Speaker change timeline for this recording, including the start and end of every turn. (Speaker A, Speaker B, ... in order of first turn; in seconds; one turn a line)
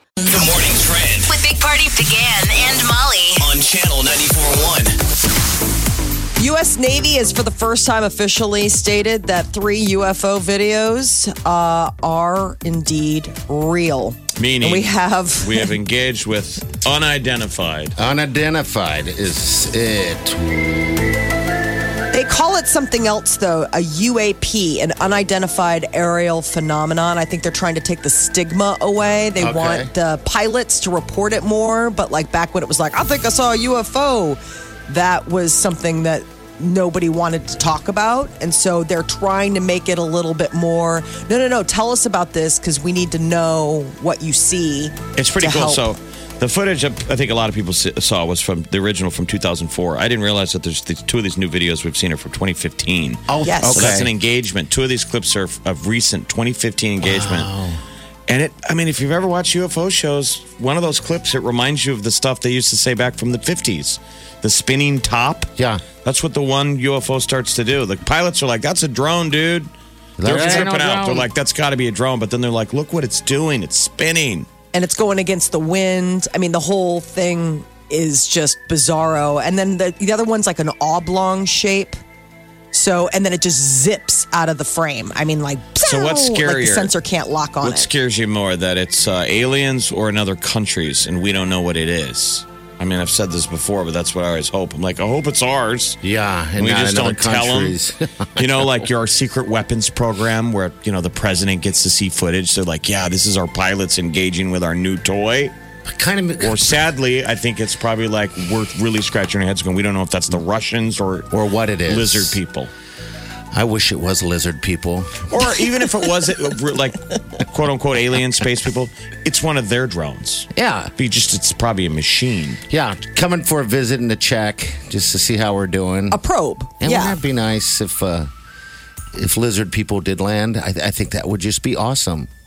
Speaker A: 0.2-1.3
Speaker B: 1.2-3.4
Speaker A: 3.4-5.0
Speaker C: 6.4-15.7
Speaker D: 14.3-17.9
Speaker E: 18.0-21.2
Speaker C: 22.1-45.8
Speaker E: 29.4-29.9
Speaker D: 45.2-57.5
Speaker E: 53.3-54.1
Speaker C: 53.4-54.0
Speaker E: 57.0-57.8
Speaker D: 58.3-65.5
Speaker E: 65.6-65.8
Speaker D: 66.0-74.5
Speaker E: 70.2-71.3
Speaker C: 74.7-82.0
Speaker C: 82.7-87.9
Speaker D: 85.8-86.9
Speaker D: 87.6-96.0
Speaker E: 96.0-98.9
Speaker D: 96.6-97.8
Speaker D: 98.4-105.5
Speaker E: 105.9-106.7
Speaker D: 106.4-111.3
Speaker E: 111.3-112.4
Speaker D: 111.9-112.7
Speaker E: 113.5-115.5
Speaker D: 115.3-122.6
Speaker E: 120.5-120.9
Speaker E: 122.7-126.2
Speaker C: 126.1-127.2
Speaker E: 126.8-128.3
Speaker E: 129.1-132.3